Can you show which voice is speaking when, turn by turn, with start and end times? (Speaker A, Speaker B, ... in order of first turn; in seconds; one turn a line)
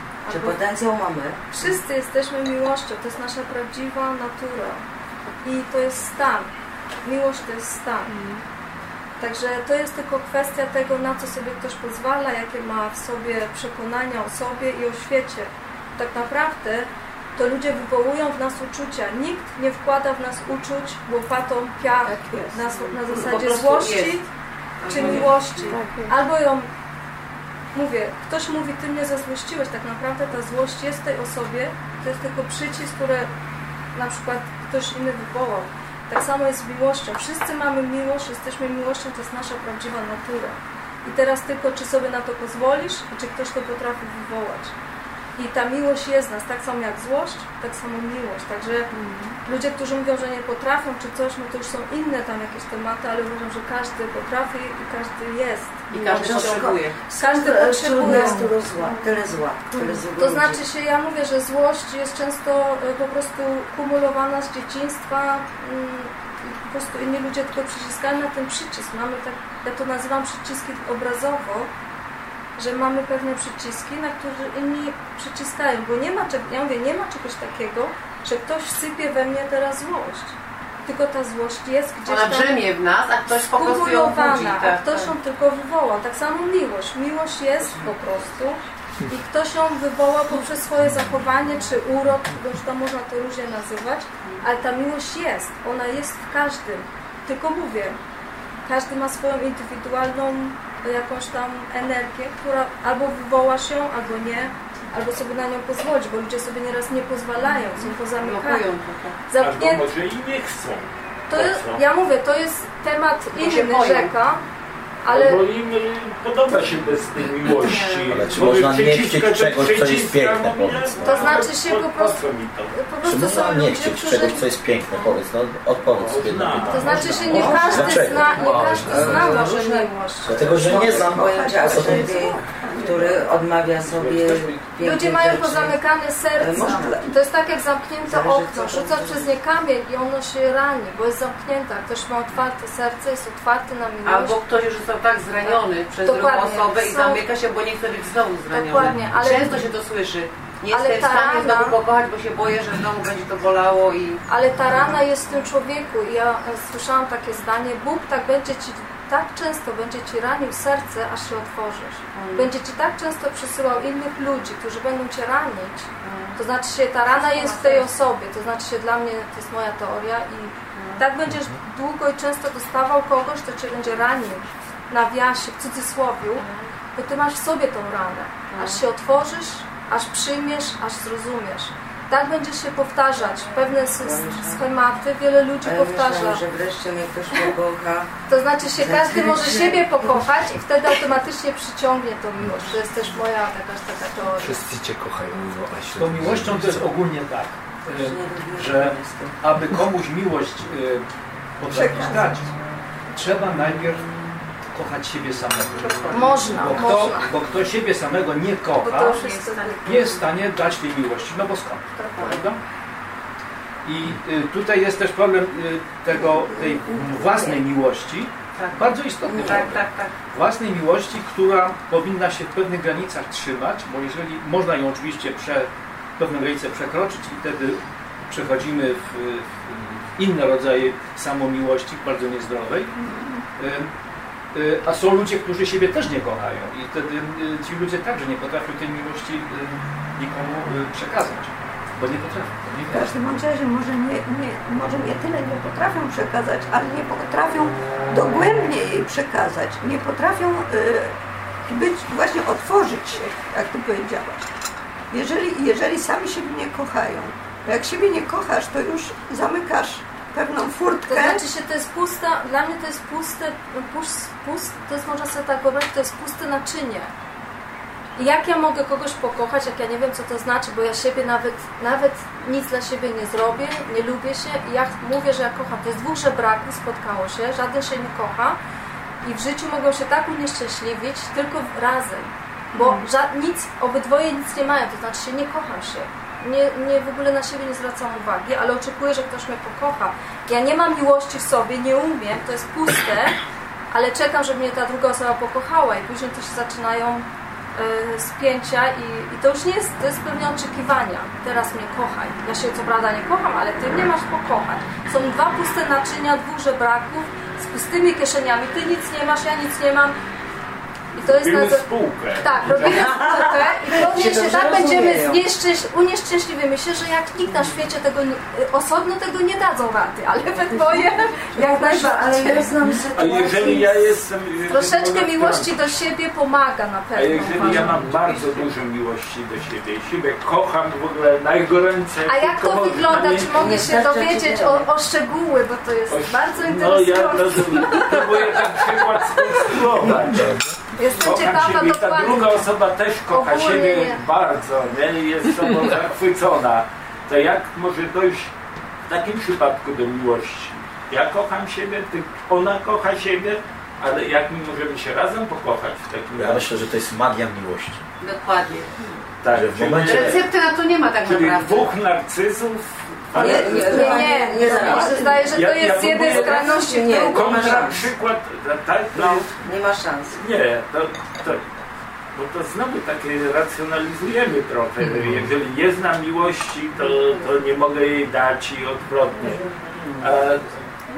Speaker A: 0.2-0.6
Speaker B: 0.3-1.4
Speaker A: 1.5-4.8
Speaker A: 5.4-6.5
Speaker A: 7.0-8.2
Speaker C: 8.1-8.4
Speaker A: 9.2-24.3
Speaker C: 22.0-23.3
Speaker D: 23.1-24.2
Speaker D: 24.8-25.8
Speaker A: 24.9-26.7
Speaker C: 24.9-26.1
Speaker A: 27.7-33.3
Speaker A: 33.9-44.7
Speaker A: 45.4-48.9
Speaker C: 48.9-49.3
Speaker A: 49.4-58.5
Speaker D: 55.9-57.0
Speaker B: 56.1-60.6
Speaker C: 56.2-56.6
Speaker C: 58.1-59.0
Speaker C: 59.7-60.0
Speaker A: 60.1-71.7
Speaker A: 72.6-82.6
Speaker D: 82.0-85.1
Speaker A: 83.3-98.0
Speaker D: 87.6-87.9
Speaker A: 98.7-108.7
Speaker D: 108.2-109.2
Speaker A: 109.3-109.9
Speaker E: 109.4-111.8
Speaker A: 111.3-114.4
Speaker D: 113.3-114.1
Speaker A: 115.0-115.4
Speaker E: 115.1-122.7
Speaker D: 117.4-118.4
Speaker F: 118.1-121.0
Speaker B: 120.9-121.4
Speaker A: 121.0-125.1
Speaker F: 123.0-129.5
Speaker E: 126.0-127.1
Speaker A: 126.7-130.5
Speaker B: 126.8-135.8
Speaker G: 128.3-129.4
Speaker F: 130.2-132.2
Speaker C: 130.4-133.3
Speaker H: 134.0-134.4
Speaker A: 134.8-144.4
Speaker B: 136.3-137.1
Speaker B: 138.1-139.3
Speaker D: 144.1-154.2
Speaker A: 145.4-147.3
Speaker A: 148.5-149.7
Speaker A: 150.7-151.8
Speaker A: 154.3-186.4
Speaker D: 162.1-162.5
Speaker D: 166.0-166.4
Speaker D: 167.1-167.9
Speaker D: 170.7-171.1
Speaker D: 176.4-176.7
Speaker D: 178.5-178.8
Speaker B: 183.8-184.7
Speaker B: 185.6-188.1
Speaker A: 188.3-194.6
Speaker B: 188.8-190.3
Speaker G: 194.4-196.9
Speaker H: 195.9-201.0
Speaker B: 197.9-199.4
Speaker H: 201.6-202.4
Speaker C: 201.7-202.5
Speaker H: 203.1-204.1
Speaker H: 204.7-212.6
Speaker D: 205.8-206.5
Speaker A: 206.1-207.3
Speaker A: 208.8-210.1
Speaker D: 212.0-212.4
Speaker H: 213.8-232.9
Speaker D: 218.6-220.1
Speaker B: 219.3-219.8
Speaker C: 233.0-233.4
Speaker H: 233.6-233.9
Speaker H: 234.5-243.2
Speaker C: 242.9-251.1
Speaker C: 251.7-254.4
Speaker C: 255.1-261.5
Speaker A: 261.1-267.1
Speaker A: 268.1-278.6
Speaker A: 279.2-293.4
Speaker C: 282.8-283.0
Speaker A: 293.9-310.2
Speaker A: 311.1-311.9
Speaker E: 311.2-313.3
Speaker A: 312.4-322.7
Speaker B: 312.8-315.4
Speaker B: 320.7-321.0
Speaker B: 321.5-323.9
Speaker E: 323.1-325.9
Speaker A: 324.7-328.4
Speaker E: 327.1-333.8
Speaker D: 328.3-328.6
Speaker A: 332.3-339.8
Speaker B: 333.4-334.9
Speaker E: 336.1-348.5
Speaker G: 340.3-340.8
Speaker A: 340.9-342.7
Speaker A: 343.3-344.2
Speaker E: 349.1-356.7
Speaker F: 356.3-358.1
Speaker D: 358.2-359.1
Speaker E: 359.4-360.4
Speaker F: 359.5-360.4
Speaker D: 360.0-361.9
Speaker E: 361.2-364.2
Speaker C: 363.3-365.4
Speaker B: 363.3-365.6
Speaker A: 363.8-367.8
Speaker E: 365.5-369.5
Speaker B: 366.1-368.1
Speaker B: 369.1-370.4
Speaker E: 370.3-371.7
Speaker E: 372.3-379.6
Speaker G: 375.0-375.5
Speaker E: 380.2-380.7